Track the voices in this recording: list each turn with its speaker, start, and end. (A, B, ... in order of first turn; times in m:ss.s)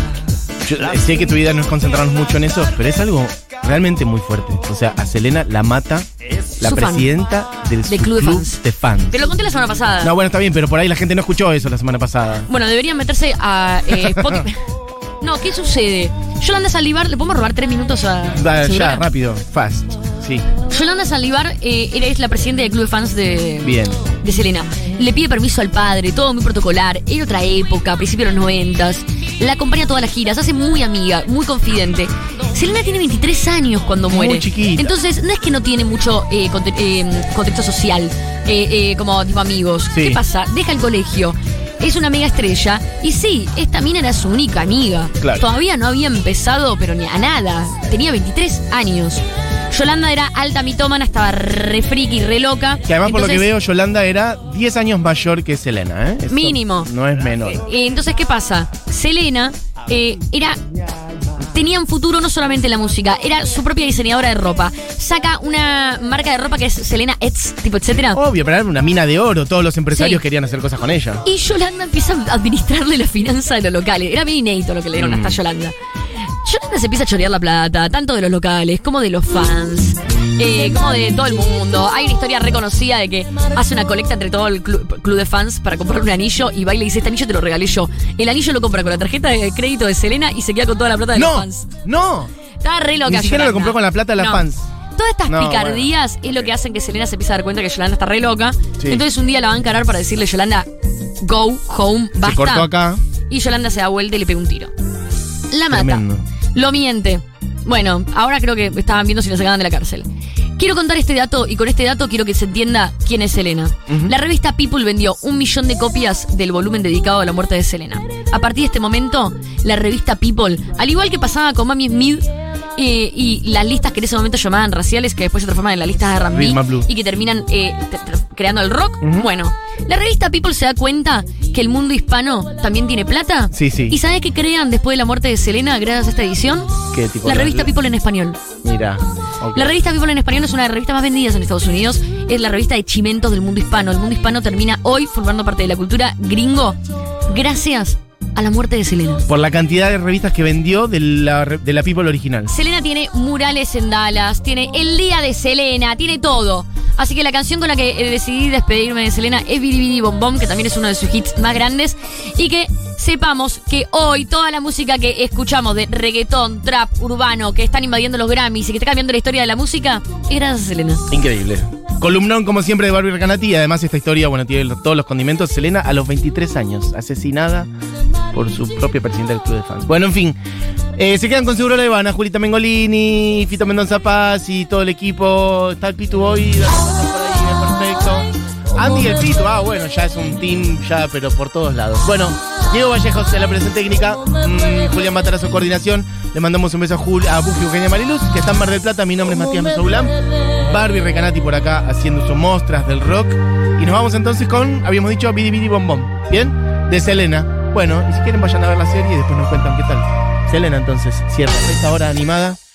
0:00.6-0:09.2 A
0:06.6-0:07.1 B
0:07.9-0:08.6 B
0:09.1-0:10.1 B
0:10.0-0:12.5 A
0:12.5-0:14.6 B
0:14.0-0:14.5 A
0:15.2-0:19.0 B
0:18.3-0:20.5 A
0:20.7-0:53.5 B
0:23.6-0:24.0 A
0:34.1-0:34.9 A
0:39.9-0:40.2 A
0:45.2-0:45.5 A
0:52.9-0:57.6 A
0:56.3-0:56.9 B
0:57.4-1:00.6 B
1:01.5-1:08.2 B
1:08.1-1:11.2 A
1:09.9-1:10.2 B
1:11.2-1:31.7 B
1:15.0-1:15.4 A
1:31.1-1:32.3 A
1:32.6-1:34.4 B
1:33.0-1:34.7 A
1:35.0-1:40.7 B
1:35.3-1:36.5 A
1:41.2-1:42.7 B
1:42.2-1:43.0 A
1:43.3-1:44.7 B
1:45.5-1:50.1 B
1:45.7-1:46.2 A
1:50.6-2:18.4 B
1:53.9-1:54.2 A
2:06.3-2:06.9 A
2:09.0-2:09.3 A
2:13.5-2:14.0 A
2:16.9-2:17.7 A
2:18.6-2:19.8 A
2:19.5-2:26.8 B
2:27.3-2:29.3 B
2:29.3-2:32.5 A
2:32.5-2:51.1 B
2:51.1-2:57.7 A
2:58.3-3:00.4 A
3:01.0-3:32.6 A